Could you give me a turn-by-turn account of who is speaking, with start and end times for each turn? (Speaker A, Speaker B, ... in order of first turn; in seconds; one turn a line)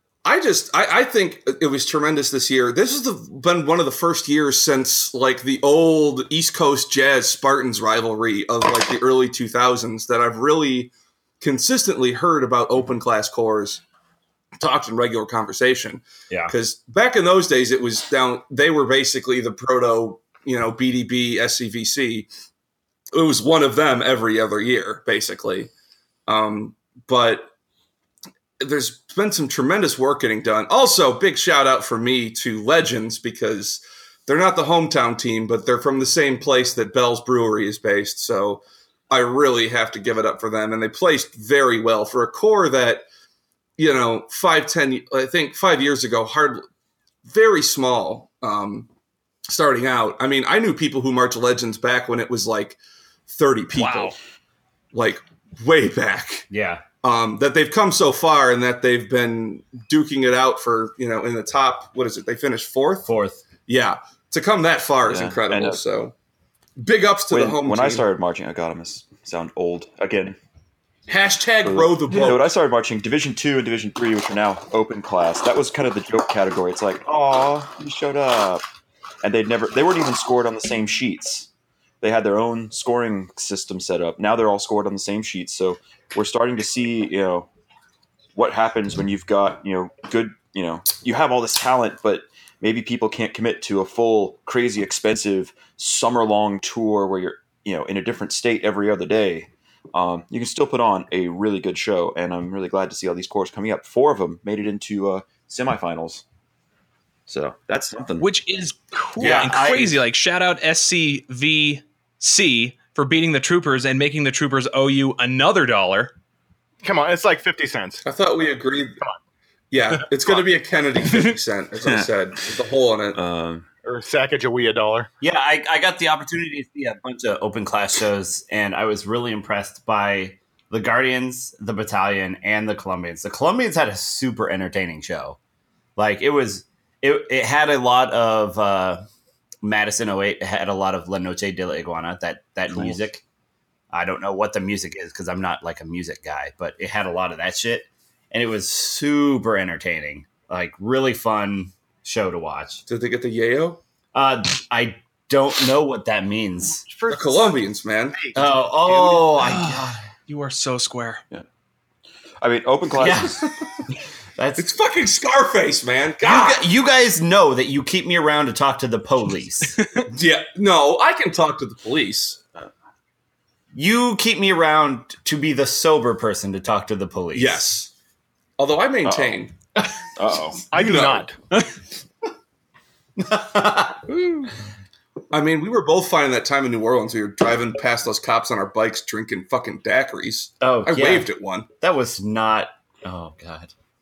Speaker A: 0.2-13.8
Speaker A: 14.6-22.3
Speaker A: 23.1-25.7
Speaker A: 26.3-27.5
Speaker A: 28.6-43.0
Speaker A: 43.8-46.6
Speaker A: 47.2-48.9
Speaker A: 49.5-54.1
Speaker B: 53.8-54.1
Speaker A: 54.9-56.5
Speaker C: 56.5-56.8
Speaker A: 57.0-63.1
Speaker C: 63.0-63.4
Speaker A: 63.6-66.1
Speaker D: 65.0-65.8
Speaker A: 66.8-68.0
Speaker D: 67.3-70.4
Speaker A: 71.1-72.5
Speaker D: 71.6-78.6
Speaker D: 79.2-81.5
Speaker D: 82.0-87.5
Speaker D: 88.3-106.2
Speaker D: 107.3-108.3
Speaker B: 108.2-116.1
Speaker C: 109.2-110.0
Speaker E: 116.8-118.0
Speaker A: 118.0-119.0
Speaker A: 119.7-123.2
Speaker D: 121.8-122.1
Speaker D: 123.1-123.7
Speaker E: 123.8-125.1
Speaker C: 125.2-135.4
Speaker C: 135.9-139.0
Speaker C: 139.6-143.2
Speaker D: 142.7-143.0
Speaker C: 143.9-152.8
Speaker A: 152.9-153.8
Speaker C: 154.1-156.9
Speaker E: 156.9-157.6
Speaker A: 157.1-158.3
Speaker E: 158.1-158.9
Speaker C: 158.3-160.0
Speaker B: 159.3-161.2
Speaker D: 162.4-163.5
Speaker C: 162.9-163.5
Speaker C: 164.4-164.7
Speaker A: 164.6-166.7
Speaker C: 166.2-169.8
Speaker A: 170.1-172.4
Speaker C: 173.7-177.6
Speaker A: 177.3-177.9
Speaker A: 178.6-179.6
Speaker D: 179.0-179.4
Speaker D: 180.2-180.6
Speaker E: 180.7-181.3
Speaker A: 180.7-181.3
Speaker C: 183.2-184.0
Speaker A: 185.3-191.7
Speaker C: 190.6-191.3
Speaker C: 191.8-193.7